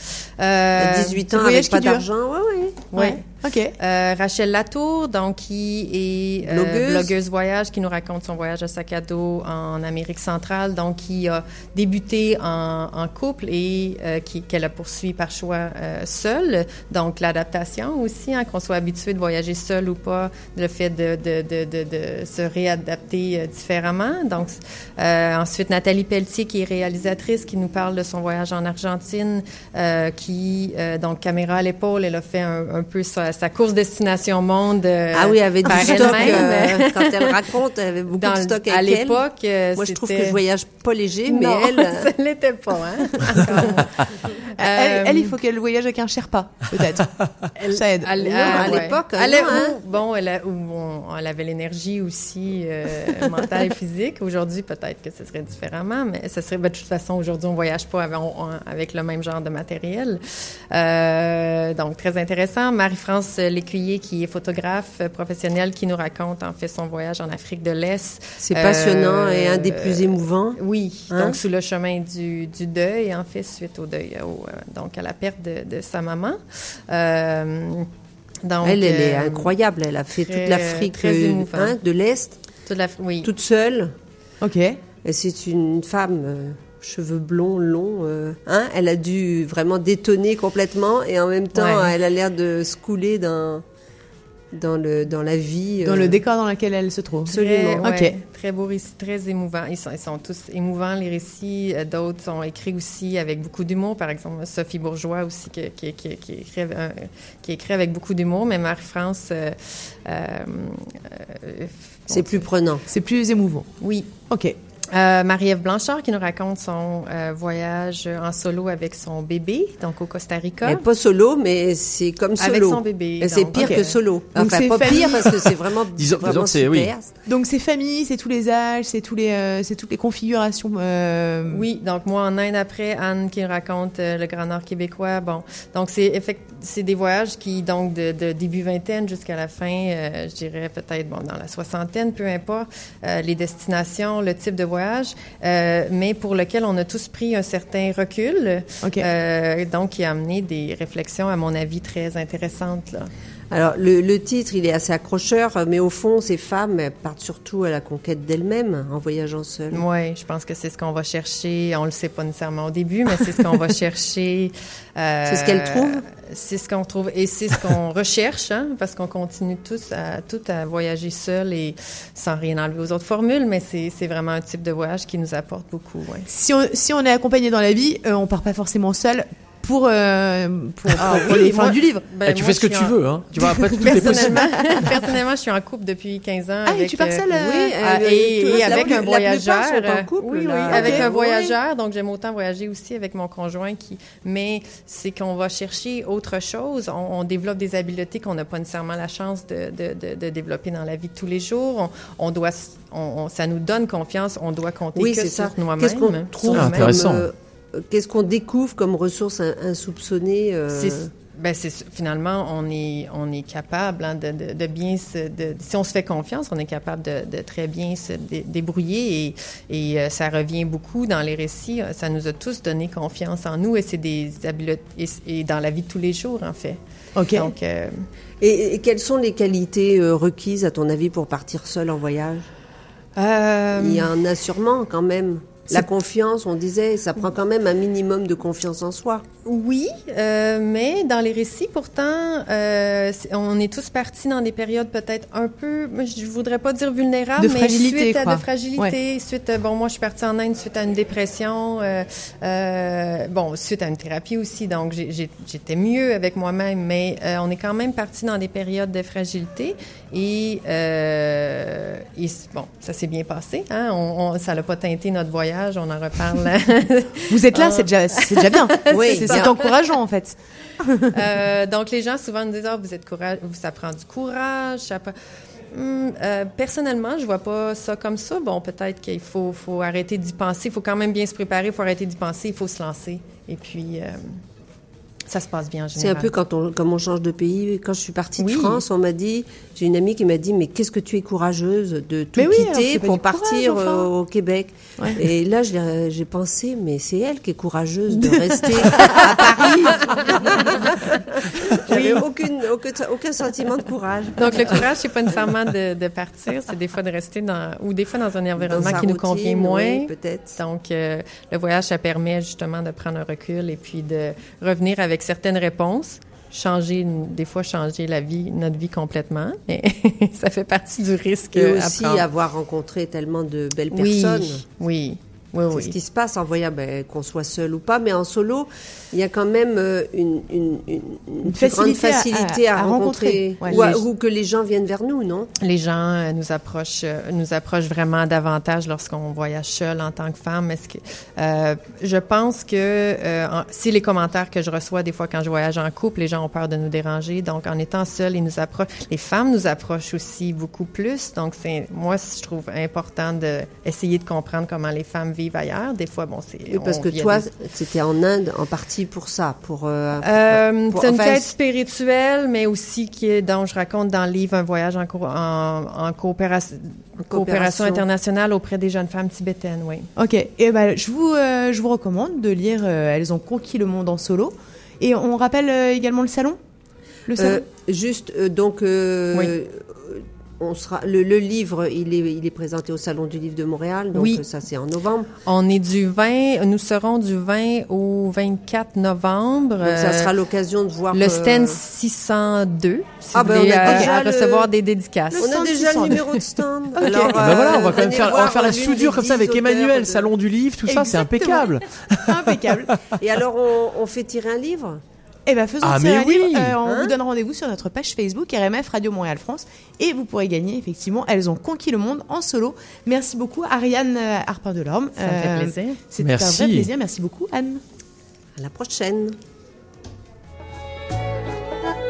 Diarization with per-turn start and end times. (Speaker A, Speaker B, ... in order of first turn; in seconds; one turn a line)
Speaker A: 0.4-1.2
Speaker B: 0.8-2.9
Speaker C: 1.3-2.0
Speaker A: 2.9-3.2
Speaker C: 3.0-3.7
Speaker A: 3.8-37.4
Speaker B: 6.5-7.1
Speaker B: 35.1-39.2
Speaker A: 38.1-40.4
Speaker B: 39.8-42.1
Speaker A: 41.3-45.4
Speaker B: 43.4-43.8
Speaker C: 44.6-48.7
Speaker A: 47.6-60.2
Speaker B: 48.4-49.8
Speaker A: 60.7-77.9
Speaker B: 68.4-71.4
Speaker A: 78.4-79.5
Speaker B: 78.6-82.4
Speaker A: 80.2-81.8
Speaker A: 82.7-83.3
Speaker B: 83.2-83.9
Speaker C: 84.4-84.8
Speaker B: 85.0-93.6
Speaker A: 91.5-91.9
Speaker B: 94.5-96.2
Speaker C: 95.8-98.2
Speaker B: 97.3-97.9
Speaker A: 97.3-112.5
Speaker B: 112.1-112.8
Speaker C: 112.9-113.7
Speaker A: 113.8-114.1
Speaker A: 114.9-120.8
Speaker B: 120.6-127.1
Speaker A: 122.4-124.0
Speaker C: 123.5-125.5
Speaker D: 126.0-126.9
Speaker C: 127.3-131.7
Speaker A: 131.5-153.1
Speaker B: 153.5-159.8
Speaker A: 159.7-176.3
Speaker B: 165.3-166.0
Speaker C: 176.3-182.0
Speaker A: 181.0-183.0
Speaker D: 181.1-181.5
Speaker D: 182.2-184.7
Speaker C: 183.5-184.4
Speaker A: 183.8-206.9
Speaker C: 186.7-187.7
Speaker B: 187.3-191.6
Speaker C: 188.6-189.0
Speaker C: 190.7-191.1
Speaker B: 204.9-211.1
Speaker D: 206.5-207.3
Speaker A: 210.7-226.8
Speaker C: 227.2-227.5
Speaker A: 227.3-228.0
Speaker B: 228.4-232.5
Speaker A: 233.2-234.1
Speaker B: 233.8-239.2
Speaker A: 239.4-269.7
Speaker C: 247.4-248.9
Speaker C: 267.3-271.1
Speaker B: 268.9-269.5
Speaker A: 271.1-275.1
Speaker A: 275.7-284.4
Speaker A: 285.3-286.4
Speaker B: 285.9-304.9
Speaker A: 288.4-288.8
Speaker C: 292.4-294.1
Speaker A: 298.8-302.2
Speaker A: 304.4-322.3
Speaker B: 308.6-310.6
Speaker B: 321.5-324.6
Speaker A: 323.9-325.9
Speaker B: 325.7-335.5
Speaker C: 331.4-334.0
Speaker A: 335.6-357.5
Speaker B: 356.7-361.5
Speaker A: 360.2-370.1
Speaker B: 367.2-368.1
Speaker C: 370.2-376.6
Speaker C: 377.3-377.6
Speaker B: 377.4-385.3
Speaker A: 384.1-384.4
Speaker A: 385.4-390.3
Speaker B: 389.8-391.8
Speaker A: 391.1-396.4
Speaker B: 393.3-394.7
Speaker C: 393.8-394.1
Speaker C: 395.3-396.2
Speaker B: 395.4-400.3
Speaker C: 397.0-398.1
Speaker D: 397.2-402.8
Speaker C: 400.9-402.9
Speaker B: 403.2-405.0
Speaker C: 405.5-417.8
Speaker D: 405.8-406.8
Speaker B: 406.8-407.2
Speaker A: 415.2-416.0
Speaker D: 416.2-416.9
Speaker B: 418.6-419.4